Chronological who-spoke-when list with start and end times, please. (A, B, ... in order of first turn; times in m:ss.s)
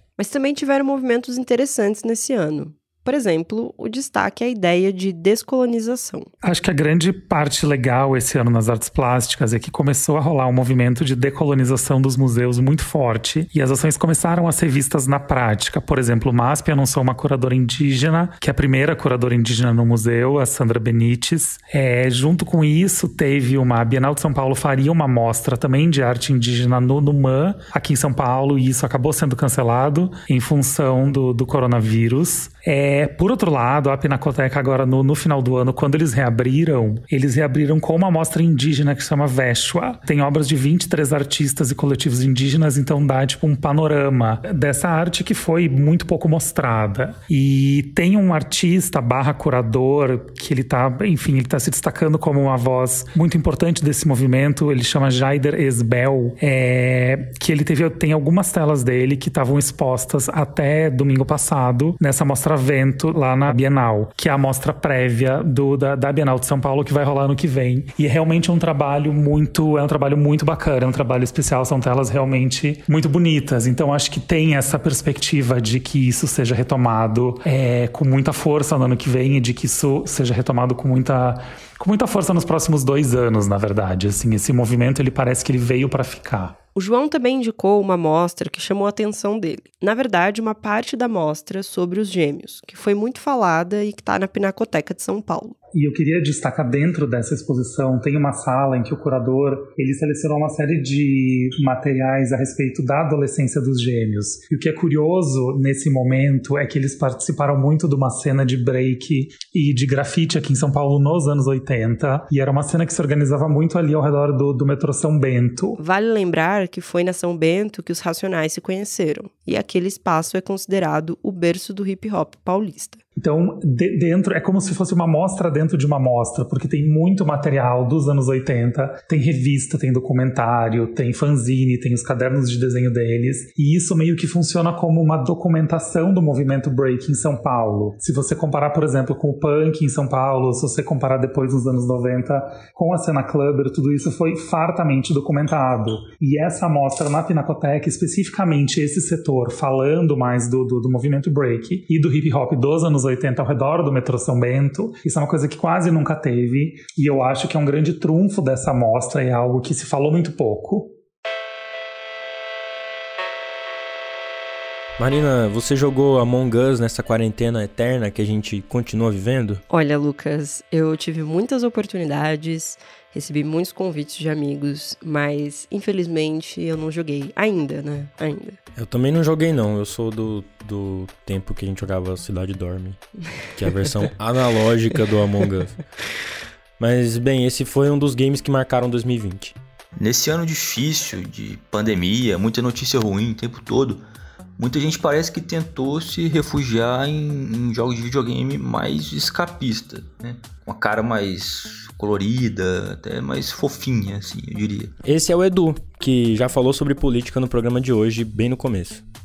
0:00.2-0:06.3 A
0:06.4-1:26.6 B
1:26.7-1:35.6 A
1:35.7-1:55.8 B
1:55.8-2:03.0 A
2:03.2-2:40.9 B
2:45.0-2:49.6 C
2:49.7-2:58.6 A
2:58.8-3:05.8 C
3:06.8-3:09.6 C
3:10.0-3:14.0 D
3:14.6-3:24.9 D
3:25.0-3:29.0 C